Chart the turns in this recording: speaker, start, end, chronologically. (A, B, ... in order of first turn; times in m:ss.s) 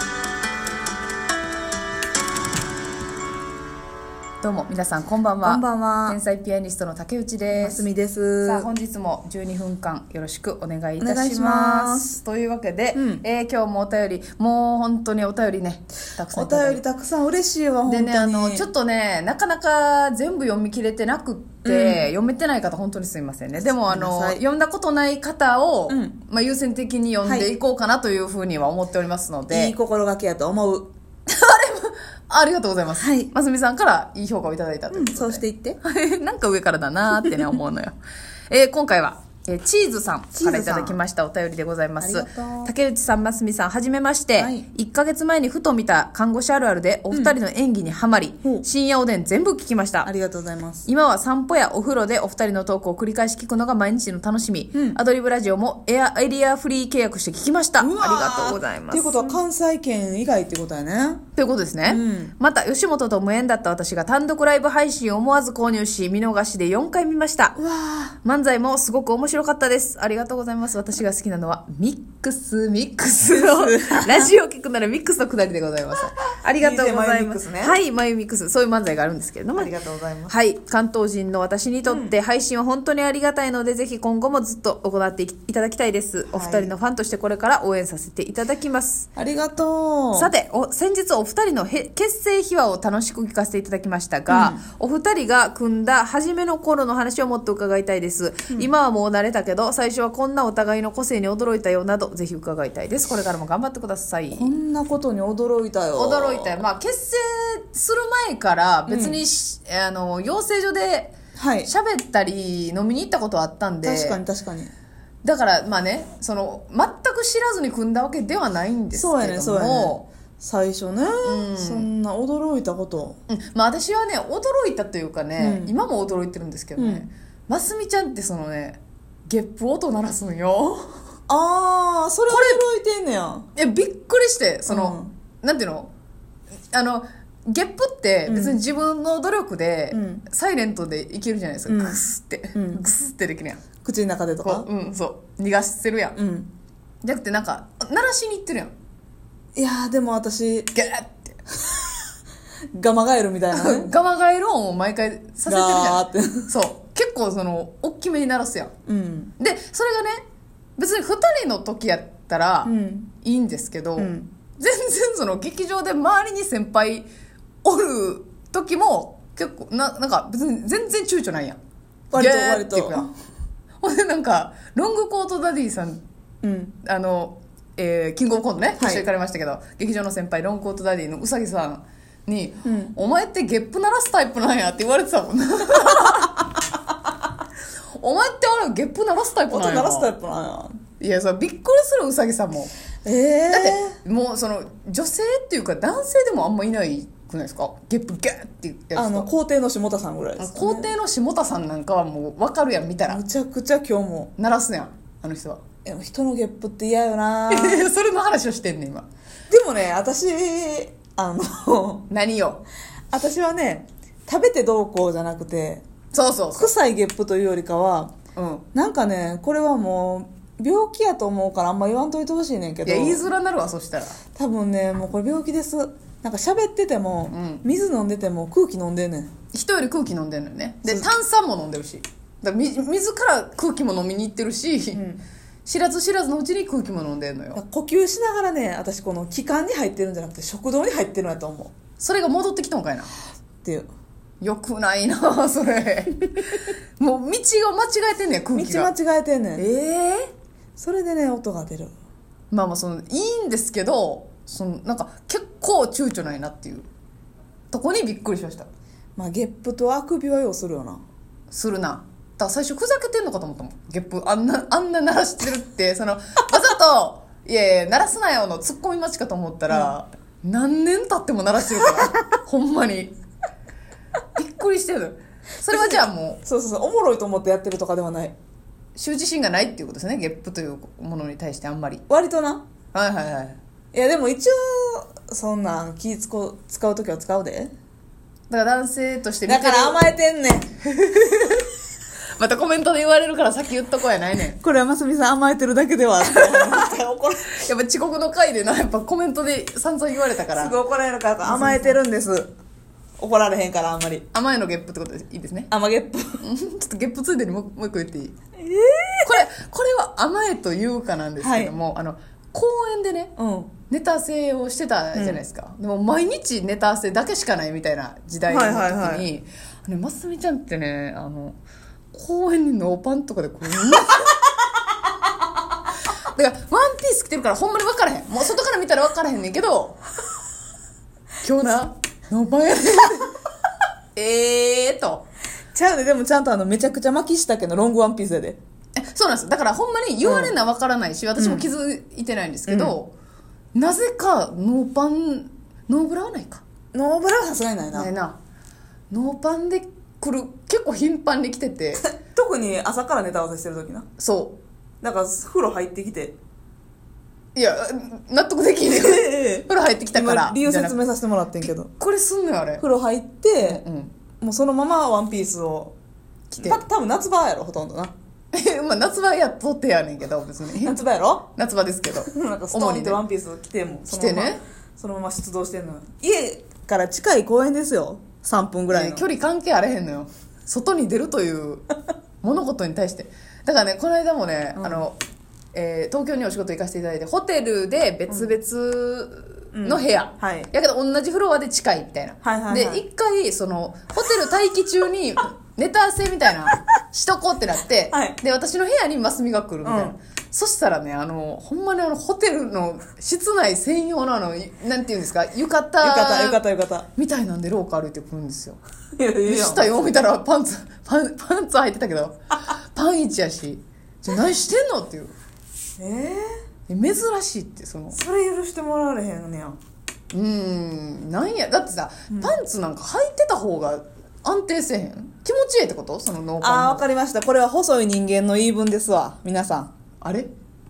0:04.4-0:07.8 A
0:05.4-0:06.2 B
0:07.5-0:08.7 B
0:08.4-0:16.8 A
0:11.0-0:12.2 B
0:12.9-0:13.2 B
0:16.3-0:18.7 B
0:17.9-0:29.8 A
0:21.6-0:22.1 B
0:23.8-0:24.4 B
0:25.9-0:26.2 B
0:27.2-0:27.5 B
0:29.5-0:30.9 B
0:31.3-0:38.0 A
0:33.0-0:33.3 B
0:34.9-0:35.8 B
0:38.5-0:50.1 A
0:40.3-0:41.0 B
0:42.0-0:42.7 B
0:44.4-0:44.7 B
0:50.0-0:50.9 B
0:50.9-0:59.4 A
0:54.7-0:55.0 B
0:57.8-1:01.2 B
1:01.4-1:07.6 A
1:01.8-1:02.4 B
1:07.6-1:08.2 B
1:08.2-1:19.7 A
1:13.3-1:14.3 B
1:16.5-1:17.8 B
1:19.6-1:20.4 B
1:20.3-1:29.1 A
1:21.9-1:22.1 B
1:26.3-1:26.7 B
1:29.2-1:30.3 B
1:30.1-1:44.6 A
1:34.3-1:34.6 B
1:44.3-1:46.6 B
1:46.0-1:54.2 A
1:48.9-1:49.2 B
1:51.4-1:51.7 B
1:53.8-1:54.7 B
1:55.2-2:00.1 A
1:58.9-2:03.2 B
2:01.2-2:01.9 A
2:03.3-2:11.0 A
2:05.4-2:05.7 B
2:06.8-2:07.1 B
2:11.3-2:13.5 B
2:12.3-2:12.6 A
2:13.6-2:15.9 A
2:14.7-2:15.1 B
2:16.7-2:23.6 A
2:18.3-2:18.6 B
2:19.9-2:20.2 B
2:21.7-2:22.0 B
2:22.6-2:22.8 B
2:23.8-2:24.7 B
2:24.4-2:26.2 A
2:26.2-2:26.5 B
2:27.0-2:28.7 A
2:29.6-2:30.7 B
2:30.7-2:31.4 A
2:32.7-2:33.9 B
2:33.5-2:38.7 A
2:35.5-2:36.5 B
2:38.9-2:39.3 B
2:39.4-2:40.2 A
2:40.8-2:47.1 A
2:42.6-2:43.1 B
2:44.0-2:44.3 B
2:47.6-2:51.6 A
2:52.1-2:53.1 B
2:52.2-2:53.1 A
2:53.8-2:56.0 A
2:56.4-2:56.8 B
2:56.8-3:06.5 A
2:58.8-2:59.0 B
3:02.6-3:03.0 B
3:08.0-3:10.1 A
3:09.5-3:10.8 B
3:11.0-3:12.7 A
3:13.0-3:14.0 B
3:13.5-3:19.3 A
3:18.9-3:20.9 B
3:20.4-3:23.2 A
3:23.1-3:24.3 B
3:24.4-3:25.6 A
3:25.8-3:27.9 B
3:27.5-3:29.1 A
3:29.5-3:32.1 B
3:32.1-3:32.6 A
3:33.1-3:35.8 B
3:36.1-3:36.7 A
3:36.6-3:38.1 B
3:38.4-3:38.6 A
3:38.7-3:43.3 B
3:42.8-3:44.2 A
3:44.4-3:49.3 B
3:47.3-3:47.6 A
3:49.5-3:55.0 A
3:54.9-3:55.2 B
3:55.6-3:57.6 A
3:57.6-4:01.7 B
4:02.0-4:03.1 A
4:03.6-4:03.9 B
4:04.4-4:08.9 A
4:08.5-4:09.7 B
4:09.6-4:10.3 A
4:10.8-4:11.9 B
4:12.5-4:16.9 A
4:17.7-4:18.7 A
4:19.2-4:21.0 B
4:21.5-4:33.1 A
4:34.4-4:36.4 A
4:35.7-4:38.4 B
4:39.0-4:42.0 A
4:42.1-4:42.6 B
4:42.9-4:43.6 A
4:43.9-4:47.7 B
4:48.5-4:50.2 A
4:49.5-4:50.7 B
4:50.8-4:51.7 A
4:52.4-4:54.6 A
4:54.6-4:57.5 B
4:56.3-4:56.9 A
4:57.5-5:00.8 A
5:00.5-5:02.5 B
5:01.4-5:02.0 A
5:03.2-5:04.3 B
5:04.3-5:05.7 A
5:05.7-5:06.4 B
5:06.4-5:08.4 A
5:08.6-5:09.5 B
5:09.2-5:13.3 A
5:11.4-5:11.7 B
5:13.4-5:13.7 B
5:13.9-5:21.6 A
5:15.1-5:15.4 B
5:18.5-5:19.3 B
5:22.1-5:24.3 A
5:26.3-5:30.0 A
5:31.4-5:33.3 A
5:34.2-5:35.2 A
5:35.7-5:38.6 B
5:39.0-5:43.1 A
5:40.2-5:40.6 B
5:41.4-5:41.7 B
5:42.7-5:43.0 B
5:43.7-5:46.6 A
5:46.9-5:48.1 B
5:47.9-5:48.4 A
5:49.1-5:52.1 A
5:52.0-5:54.1 B
5:54.2-5:54.6 A
5:55.0-5:56.4 B
5:57.6-6:01.0 A
5:58.9-6:01.9 B
6:01.9-6:02.8 A
6:02.8-6:03.8 B
6:03.6-6:04.2 A
6:04.4-6:05.9 B
6:06.5-6:06.8 A
6:06.6-6:08.1 B
6:08.5-6:11.0 A
6:10.8-6:11.5 B
6:11.6-6:13.2 A
6:12.2-6:19.2 B
6:14.1-6:14.6 A
6:18.9-6:21.8 A
6:22.4-6:25.2 A
6:24.8-6:25.1 B
6:25.7-6:46.6 A
6:28.3-6:28.6 B
6:29.7-6:30.7 B
6:32.4-6:33.0 B
6:38.1-6:38.4 B
6:39.8-6:40.2 B
6:46.0-6:47.1 B
6:47.2-6:48.8 A
6:49.2-6:50.1 B
6:49.5-6:55.3 A
6:56.0-6:56.4 B
6:56.9-6:58.2 A
6:58.1-6:59.8 B
7:00.3-7:07.0 A
7:06.6-7:09.9 B
7:10.2-7:10.5 A